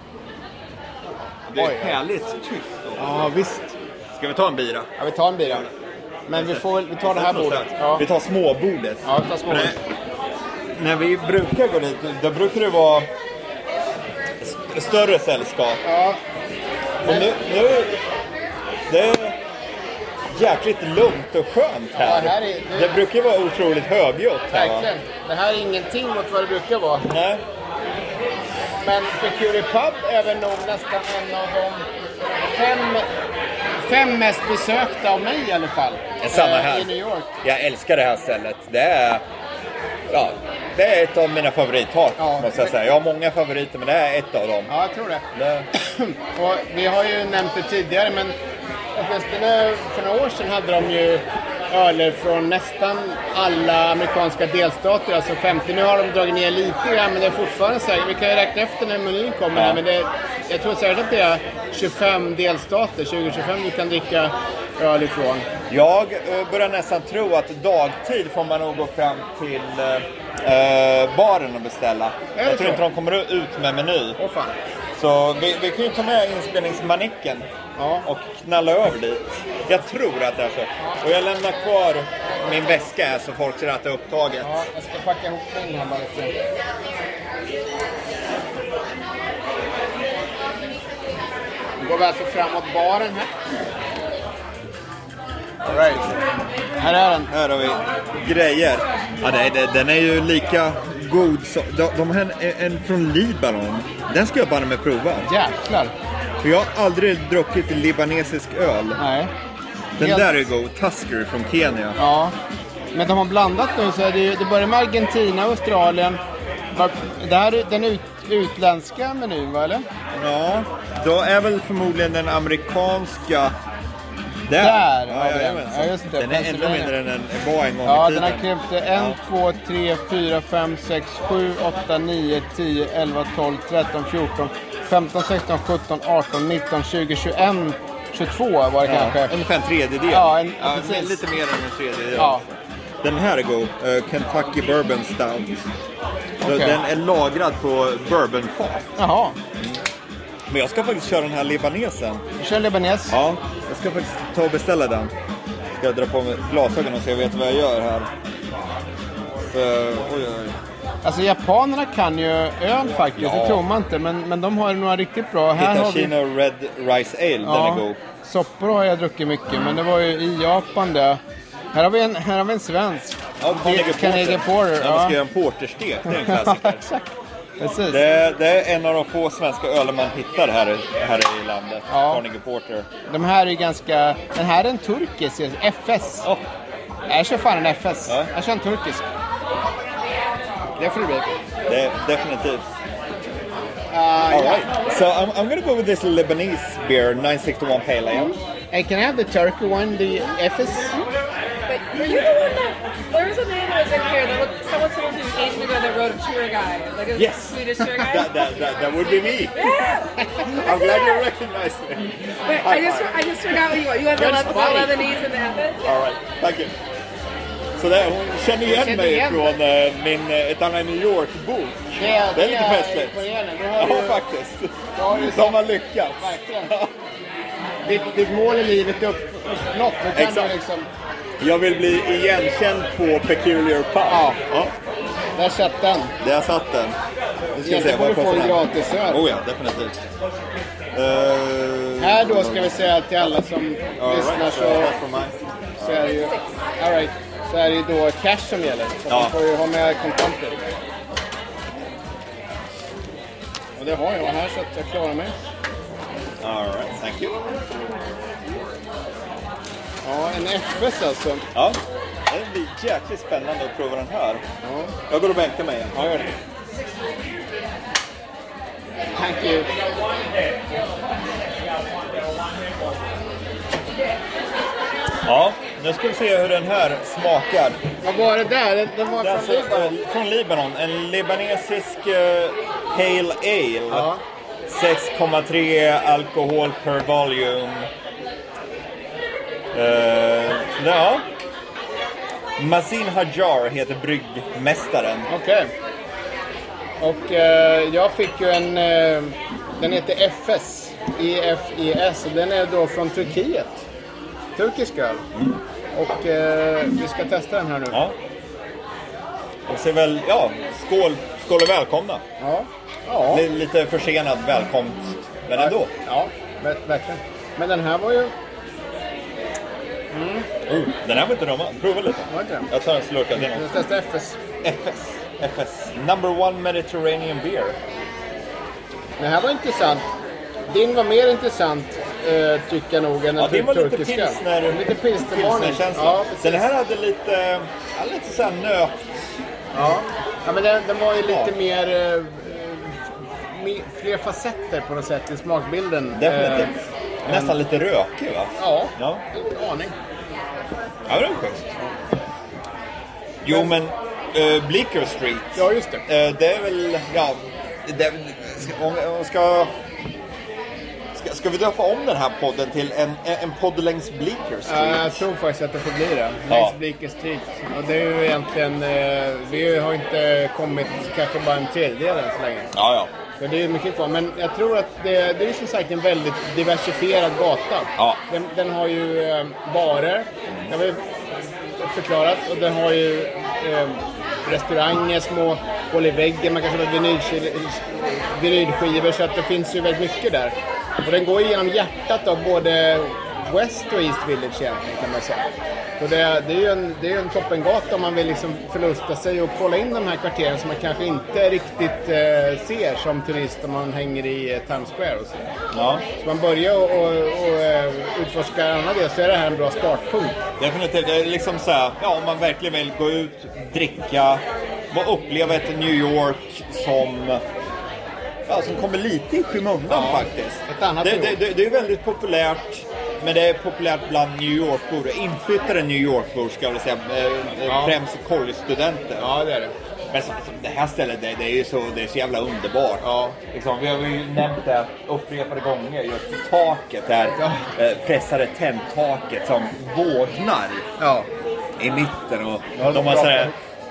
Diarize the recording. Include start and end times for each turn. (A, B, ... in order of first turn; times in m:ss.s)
0:01.4-0:03.3 A
0:01.6-0:02.0 B
0:03.0-0:03.8 B
0:04.2-0:04.9 A
0:05.0-0:05.7 B
0:06.3-0:08.1 B
0:06.3-0:09.8 A
0:09.0-0:09.8 B
0:10.7-0:13.1 A
0:14.4-0:15.8 A
0:15.8-0:16.2 B
0:17.0-0:18.0 A
0:17.0-0:17.3 B
0:18.9-0:19.4 A
0:20.3-0:24.9 A
0:21.9-0:23.0 B
0:24.5-0:27.1 B
0:27.1-0:27.4 A
0:28.8-0:31.9 B
0:32.4-0:33.0 B
0:33.8-0:37.3 B
0:36.2-0:39.2 A
0:40.1-0:44.7 A
0:42.2-0:42.7 B
0:44.7-0:48.4 B
0:45.3-0:45.7 A
0:48.9-1:05.5 B
0:59.5-0:59.8 A
1:05.7-1:14.2 A
1:12.3-1:12.8 B
1:14.2-1:14.6 B
1:15.0-1:17.5 A
1:17.8-1:18.0 B
1:18.0-1:24.6 A
1:24.4-1:26.3 B
1:31.8-1:33.3 B
1:35.6-1:36.2 B
1:35.6-1:36.2 A
1:36.8-1:37.3 B
1:37.3-1:45.3 A
1:45.2-1:45.9 B
1:46.4-1:49.0 A
1:49.0-1:49.3 B
1:50.0-1:50.4 B
1:50.0-1:52.0 A
1:52.0-1:52.3 B
1:52.9-1:56.2 B
1:56.7-1:59.9 B
2:00.1-2:03.5 A
2:04.4-2:09.2 A
2:04.5-2:06.9 B
2:07.8-2:19.3 B
2:18.8-2:25.7 A
2:20.1-2:21.2 B
2:22.1-2:22.4 B
2:26.4-2:26.8 B
2:26.4-2:29.0 A
2:29.0-2:29.4 B
2:30.5-2:32.2 A
2:32.4-2:33.2 B
2:33.1-2:35.1 A
2:35.7-2:38.1 A
2:39.5-2:40.6 A
2:41.0-2:46.1 B
2:43.1-2:43.6 A
2:45.5-2:48.0 A
2:47.4-2:51.2 B
2:51.7-2:55.2 B
2:53.4-2:56.8 A
2:56.1-2:57.0 B
2:57.6-2:58.0 B
2:57.9-3:02.9 A
3:01.9-3:02.2 B
3:03.1-3:06.3 B
3:07.1-3:09.1 B
3:10.8-3:11.3 B
3:11.7-3:12.6 A
3:13.9-3:14.7 B
3:14.3-3:18.4 A
3:18.7-3:21.0 B
3:21.7-3:28.4 C
3:27.1-3:33.5 A
3:29.6-3:31.2 C
3:32.4-3:35.8 C
3:34.1-3:35.0 B
3:35.8-3:36.7 A
3:37.8-3:43.2 A
3:38.5-3:39.6 B
3:42.0-3:44.2 B
3:43.8-3:46.9 A
3:44.9-3:46.7 B
3:47.8-3:50.9 B
3:50.1-3:50.6 A
3:51.4-3:54.7 A
3:54.0-3:54.4 B
3:55.3-3:56.1 B
3:56.2-3:57.0 A
3:57.5-4:00.0 A
3:57.6-3:59.2 B
4:00.9-4:02.7 A
4:02.0-4:04.9 B
4:04.0-4:06.1 A
4:05.8-4:10.6 B
4:09.1-4:09.3 A
4:13.8-4:15.4 B
4:16.4-4:17.4 A
4:20.0-4:21.5 B
4:21.5-4:24.4 A
4:24.6-4:25.0 B
4:25.1-4:26.0 A
4:25.9-4:26.4 B
4:29.2-4:29.7 B
4:35.2-4:37.8 A
4:38.0-4:39.9 B
4:39.2-4:44.1 A
4:43.9-4:44.2 B
4:44.6-4:47.9 A
4:49.7-4:51.3 A
4:52.6-4:55.3 A
4:55.3-4:55.7 B
4:57.0-5:03.8 B
5:04.6-5:05.2 B
5:05.3-5:05.6 A
5:05.9-5:08.0 B
5:07.9-5:08.2 A
5:09.7-5:12.2 A
5:12.4-5:13.4 B
5:13.3-5:15.9 A
5:15.6-5:18.3 B
5:20.1-5:20.5 B
5:20.6-5:23.6 A
5:22.3-5:22.7 B
5:23.4-5:24.4 B
5:24.6-5:27.8 A
5:29.2-5:30.1 B
5:30.7-5:36.7 B
5:33.4-5:39.0 A
5:39.7-5:46.7 B
5:41.2-5:41.5 A
5:46.1-5:49.2 A
5:47.2-5:47.6 B
5:48.6-5:49.9 B
5:51.1-5:51.7 A
5:53.4-5:59.7 A
5:55.5-5:56.0 B
6:01.1-6:05.2 A
6:04.6-6:12.7 B
6:06.5-6:06.7 A
6:12.7-6:13.1 A
6:13.4-6:21.0 B
6:21.8-6:35.5 B
6:36.0-6:45.5 B
6:45.7-6:46.0 A
6:46.2-6:50.4 B
6:50.6-6:57.4 A
6:58.5-7:09.3 A
6:59.9-7:01.4 B
7:07.7-7:08.0 B
7:09.2-7:09.7 B
7:10.1-7:20.9 A
7:13.0-7:13.4 B
7:17.3-7:17.7 B
7:21.0-7:21.3 B
7:21.8-7:23.5 A
7:22.7-7:23.5 B